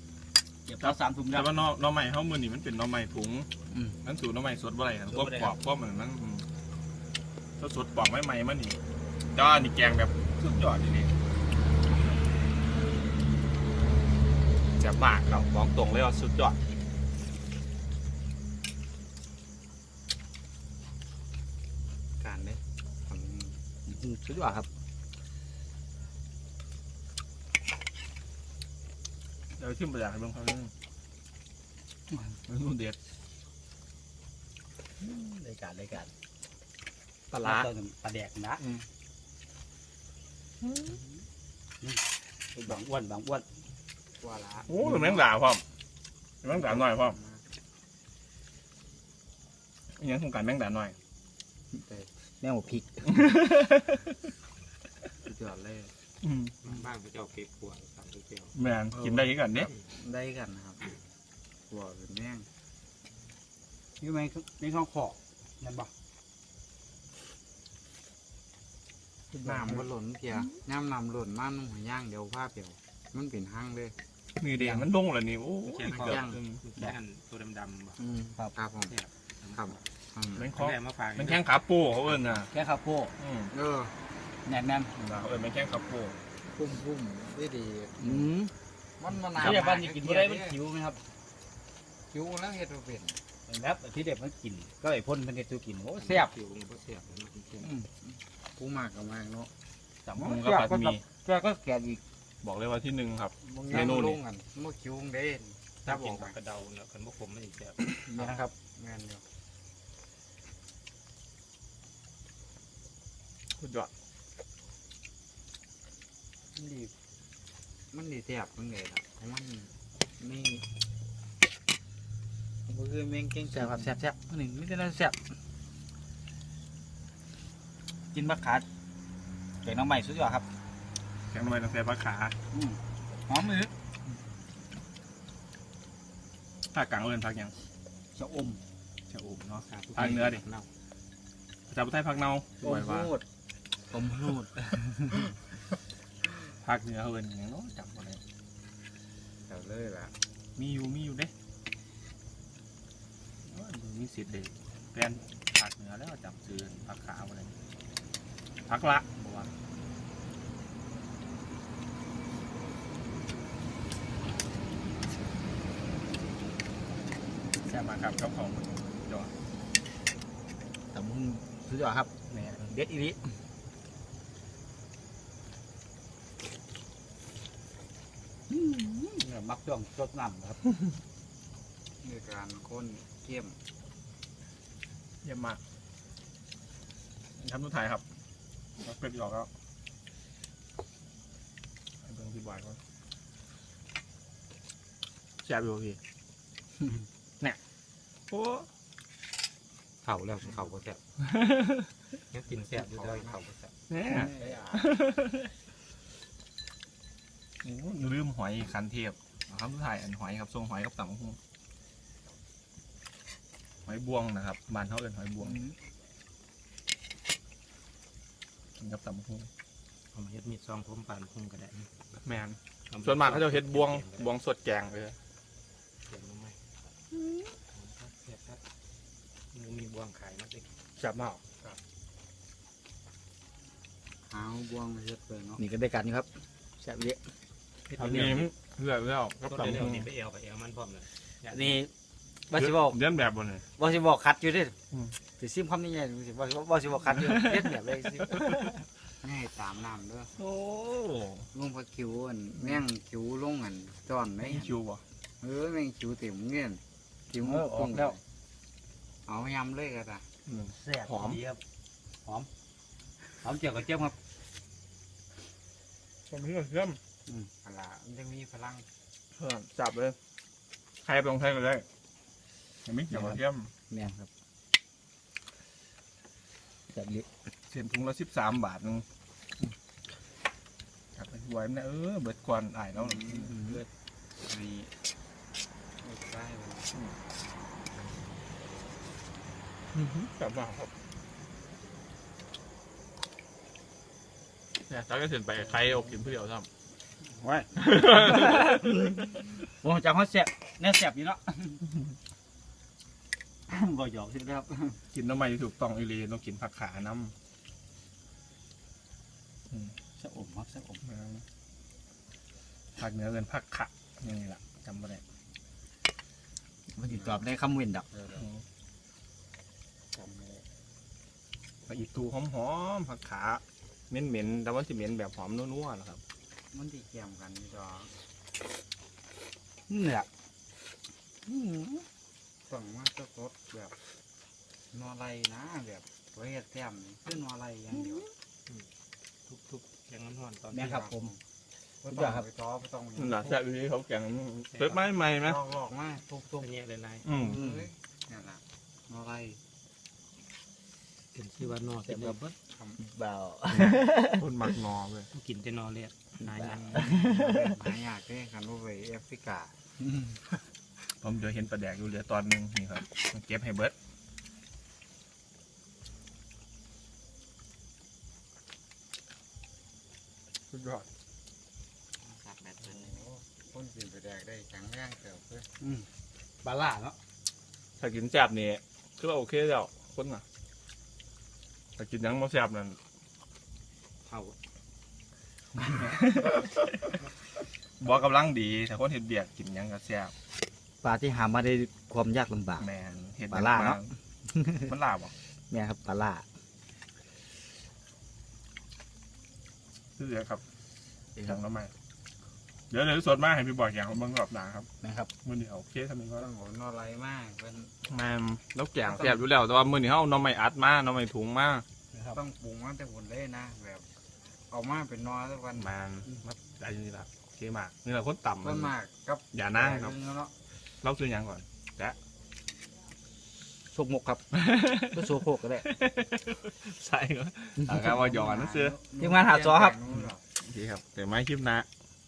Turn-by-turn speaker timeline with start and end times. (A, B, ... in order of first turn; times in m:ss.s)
0:00.6-0:01.6 A
0:00.8-0:03.5 B
0:03.7-0:04.0 A
0:04.0-0:06.4 B
0:05.1-0:05.5 A
0:07.6-0:08.8 B
0:09.3-0:11.1 B
0:14.8-0:16.6 B
0:22.2-0:23.6 C
0:23.8-0:24.7 A
0:29.6-0:30.7 B
0:32.4-0:33.0 B
0:35.0-0:36.1 A
0:37.3-0:37.7 B
0:37.4-0:38.6 A
0:42.5-0:43.4 A
0:44.2-0:45.2 C
0:44.7-0:45.6 B
0:46.4-0:47.2 B
0:46.5-0:47.5 C
0:50.0-0:51.0 B
0:51.7-0:52.1 C
0:52.4-0:53.1 A
0:53.1-0:54.1 B
0:55.2-0:55.9 C
0:56.2-0:56.6 B
0:56.6-0:58.5 D
0:58.5-0:59.7 B
0:58.9-1:00.8 C
1:01.7-1:02.5 C
1:04.0-1:05.9 A
1:09.4-1:13.9 C
1:09.4-1:09.8 A
1:14.4-1:16.6 B
1:15.6-1:18.0 D
1:15.9-1:16.4 C
1:18.0-1:19.0 C
1:18.9-1:19.8 D
1:19.5-1:20.5 C
1:20.4-1:22.5 B
1:20.4-1:21.4 D
1:22.5-1:23.1 A
1:23.2-1:23.5 B
1:23.5-1:23.9 C
1:24.4-1:24.9 A
1:25.0-1:26.2 B
1:26.4-1:28.3 C
1:28.0-1:28.5 A
1:29.0-1:30.6 C
1:29.4-1:31.0 A
1:32.1-1:33.2 C
1:33.5-1:36.3 A
1:36.0-1:37.7 D
1:37.6-1:39.5 C
1:40.1-1:42.0 A
1:40.2-1:41.0 B
1:42.4-1:44.2 B
1:43.4-1:46.3 C
1:45.8-1:47.8 D
1:48.0-1:49.2 C
1:48.1-1:48.5 A
1:53.6-1:53.9 B
1:56.6-1:56.9 A
1:57.9-2:00.6 C
2:02.7-2:04.0 C
2:03.4-2:05.2 A
2:08.1-2:08.6 A
2:09.6-2:10.4 A
2:11.3-2:12.3 B
2:12.5-2:13.7 A
2:16.7-2:17.6 B
2:18.1-2:18.6 A
2:19.1-2:20.4 B
2:19.6-2:20.7 D
2:21.7-2:23.1 B
2:22.6-2:23.2 A
2:23.9-2:25.3 A
2:26.6-2:28.2 B
2:29.5-2:30.1 C
2:30.6-2:31.3 B
2:33.4-2:37.6 B
2:38.7-2:39.5 B
2:47.6-2:49.3 B
2:50.9-2:53.2 A
2:58.5-3:00.6 A
3:02.0-3:03.6 C
3:05.2-3:05.6 B
3:07.4-3:08.0 B
3:08.8-3:09.5 B
3:12.0-3:12.8 B
3:15.4-3:16.0 B
3:18.3-3:18.7 B
3:20.0-3:21.0 A
3:21.2-3:21.9 B
3:22.3-3:23.4 D
3:22.5-3:24.8 C
3:23.9-3:25.5 B
3:27.6-3:31.4 B
3:33.8-3:35.6 B
3:38.8-3:39.5 B
3:40.1-3:41.9 D
3:42.2-3:45.2 B
3:42.9-3:44.3 D
3:46.1-3:46.6 D
3:47.7-3:48.6 D
3:49.5-3:50.7 D
3:51.0-3:51.4 B
3:54.3-3:55.6 C
3:55.6-3:57.2 A
3:57.9-3:58.5 D
3:58.0-4:00.1 B
3:59.5-4:01.8 D
4:01.5-4:01.9 A
4:02.5-4:03.0 A
4:02.5-4:03.6 B
4:03.8-4:04.7 A
4:05.4-4:08.6 A
4:07.2-4:07.6 B
4:08.2-4:08.6 B
4:09.2-4:10.3 C
4:10.4-4:11.4 B
4:11.5-4:14.7 C
4:14.4-4:15.0 B
4:15.4-4:18.2 C
4:17.4-4:18.2 A
4:19.2-4:20.2 C
4:20.4-4:21.4 B
4:20.7-4:21.6 A
4:23.4-4:24.2 A
4:26.3-4:27.0 B
4:27.6-4:28.8 C
4:29.3-4:30.2 B
4:31.0-4:31.8 B
4:32.8-4:33.7 B
4:33.1-4:33.4 A
4:33.9-4:34.3 A
4:36.9-4:37.2 A
4:37.7-4:39.0 B
4:41.1-4:43.6 B
4:43.0-4:43.6 C
4:43.3-4:43.8 A
4:44.4-4:44.9 C
4:46.0-4:46.9 C
4:49.9-4:50.9 B
4:54.9-4:56.7 B
4:57.2-4:58.8 A
4:57.8-4:59.4 B
4:59.7-5:01.8 A
5:03.7-5:05.0 A
5:05.1-5:07.3 B
5:10.2-5:11.0 A
5:11.0-5:11.4 B
5:13.0-5:15.2 B
5:16.9-5:18.0 A
5:17.1-5:17.4 C
5:18.1-5:18.5 C
5:18.3-5:18.6 B
5:20.1-5:20.6 C
5:21.8-5:26.2 B
5:26.7-5:28.1 C
5:29.9-5:30.3 A
5:31.4-5:32.0 A
5:32.7-5:33.9 C
5:34.9-5:38.3 C
5:39.5-5:40.9 D
5:40.7-5:41.3 A
5:40.8-5:41.4 C
5:42.0-5:43.6 C
5:42.1-5:42.5 A
5:43.2-5:45.6 B
5:44.7-5:45.0 D
5:45.4-5:46.6 C
5:46.5-5:47.3 D
5:47.2-5:47.6 B
5:47.3-5:49.6 C
5:47.5-5:47.8 A
5:51.3-5:52.5 D
5:52.0-5:52.4 A
5:52.7-5:53.0 C
5:53.0-5:54.4 A
5:53.8-5:55.3 B
5:55.3-5:57.0 D
5:56.4-5:59.8 C
5:56.6-5:57.6 A
6:01.2-6:03.9 B
6:10.7-6:11.0 B
6:12.2-6:15.7 C
6:15.8-6:16.1 A
6:16.6-6:17.2 A
6:18.0-6:20.4 B
6:22.0-6:23.0 B
6:24.2-6:24.6 D
6:25.9-6:27.2 B
6:28.0-6:30.3 B
6:31.0-6:32.9 A
6:32.8-6:34.1 B
6:33.5-6:34.9 A
6:34.8-6:35.3 B
6:35.7-6:36.4 A
6:40.2-6:40.6 B
6:41.4-6:41.9 B
6:42.9-6:44.9 B
6:45.0-6:45.3 A
6:45.4-6:46.5 B
6:46.4-6:47.9 C
6:48.0-6:51.8 B
6:49.0-6:49.4 C
6:52.1-6:52.4 A
6:52.3-6:54.1 C
6:54.7-6:55.9 C
6:55.8-6:58.9 B
6:58.6-7:00.5 C
6:59.5-7:00.2 B
7:01.0-7:02.2 B
7:03.9-7:05.9 A
7:04.5-7:05.2 B
7:05.8-7:09.0 B
7:08.1-7:10.4 C
7:09.2-7:10.0 A
7:10.6-7:11.9 B